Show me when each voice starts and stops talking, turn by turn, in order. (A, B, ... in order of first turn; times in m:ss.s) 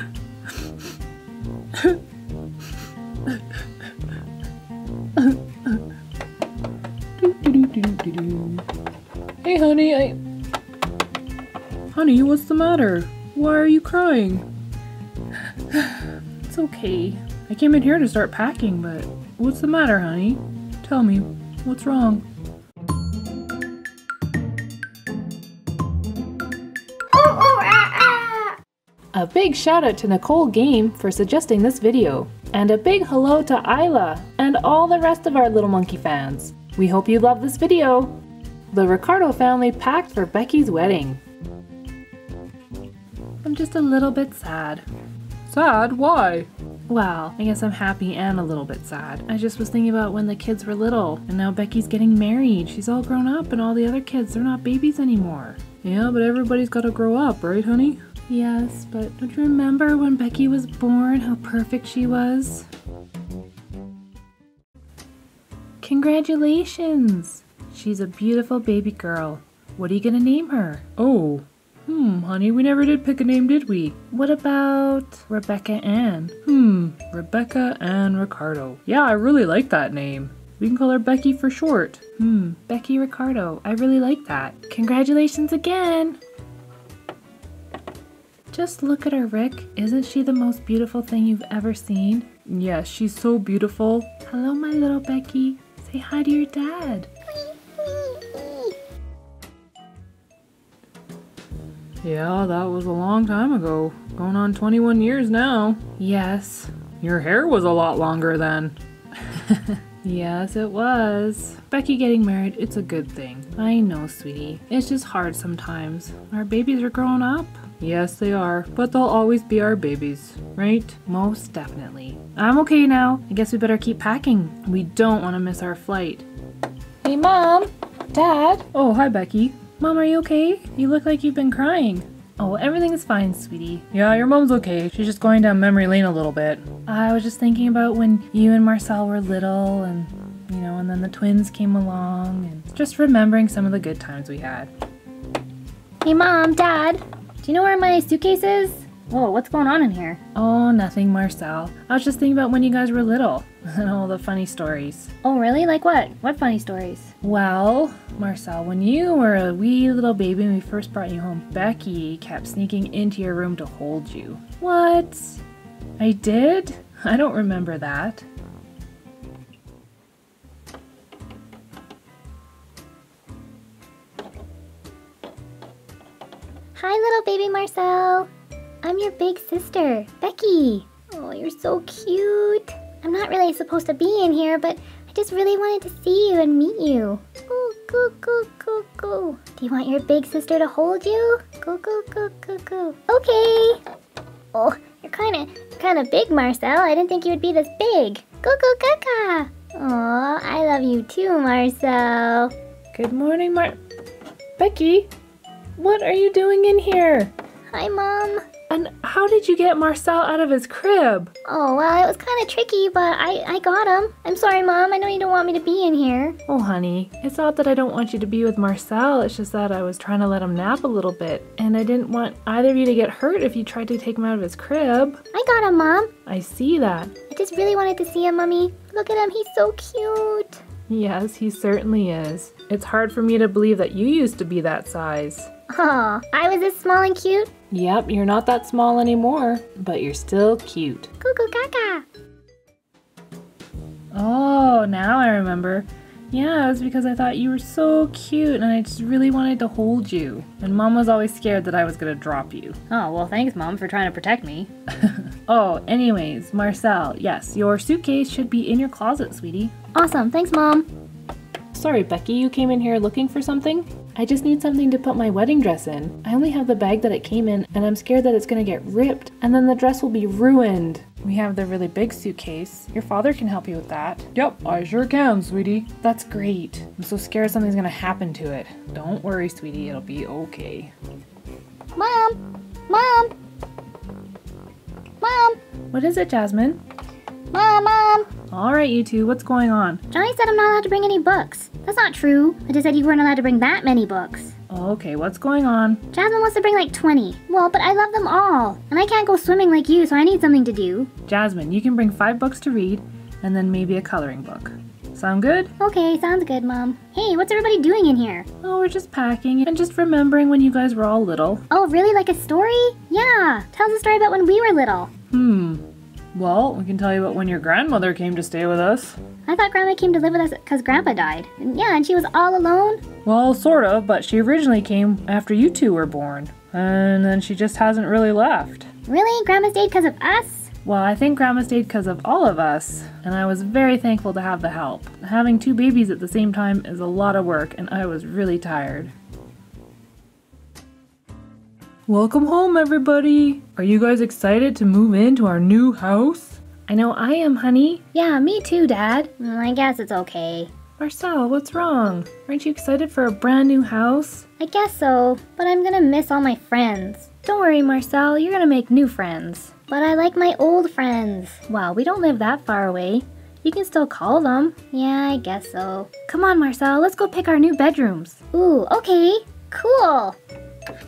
0:01.7-0:02.0 A
0:05.2-0:05.8 A
0:07.2-0:08.6 A
0:09.4-0:10.2 A
0:11.9-0:14.5 A
0:15.7-0:22.2 A
0:27.1-0:28.6 B
0:29.1-0:38.2 A
0:38.7-0:41.2 A
0:43.4-0:44.8 A
0:45.4-1:02.7 A
1:05.8-1:26.2 A
1:28.5-1:37.1 A
1:37.4-1:38.7 B
1:42.0-2:06.2 A
2:07.0-2:24.7 A
2:26.0-2:30.2 B
2:30.2-2:35.3 A
2:35.3-2:36.8 B
2:36.2-2:45.4 A
2:46.0-2:48.2 A
2:56.7-2:58.3 B
2:58.8-3:13.8 B
3:14.5-3:22.5 B
3:22.9-3:23.8 A
3:24.6-3:25.1 A
3:25.8-3:27.3 A
3:27.7-3:28.5 B
3:28.6-3:31.3 A
3:31.4-3:36.4 B
3:36.4-3:45.2 A
3:45.3-3:46.2 B
3:46.2-3:47.2 A
3:47.3-3:50.6 B
3:50.8-3:55.5 A
3:55.7-3:57.6 B
3:57.6-4:01.1 A
4:01.2-4:02.0 B
4:04.1-4:19.9 A
4:19.9-4:20.9 B
4:21.7-4:40.9 A
4:41.9-4:43.3 B
4:45.2-4:45.6 B
4:45.9-4:46.8 A
4:47.5-4:48.4 B
4:48.4-4:50.1 A
4:50.1-4:54.5 B
4:54.7-4:56.1 A
4:56.1-5:01.1 B
5:01.2-5:05.7 A
5:05.8-5:08.5 B
5:08.6-5:11.6 A
5:11.7-5:15.1 B
5:15.2-5:19.2 A
5:19.4-5:23.1 B
5:23.1-5:28.9 A
5:29.0-5:30.7 B
5:30.7-5:39.1 A
5:42.1-5:49.4 A
5:49.3-5:50.8 B
5:50.9-5:54.5 A
5:54.6-5:57.3 B
5:57.3-5:59.9 A
5:59.8-6:01.7 B
6:01.6-6:04.9 A
6:04.8-6:06.1 B
6:06.1-6:08.5 A
6:08.5-6:10.4 B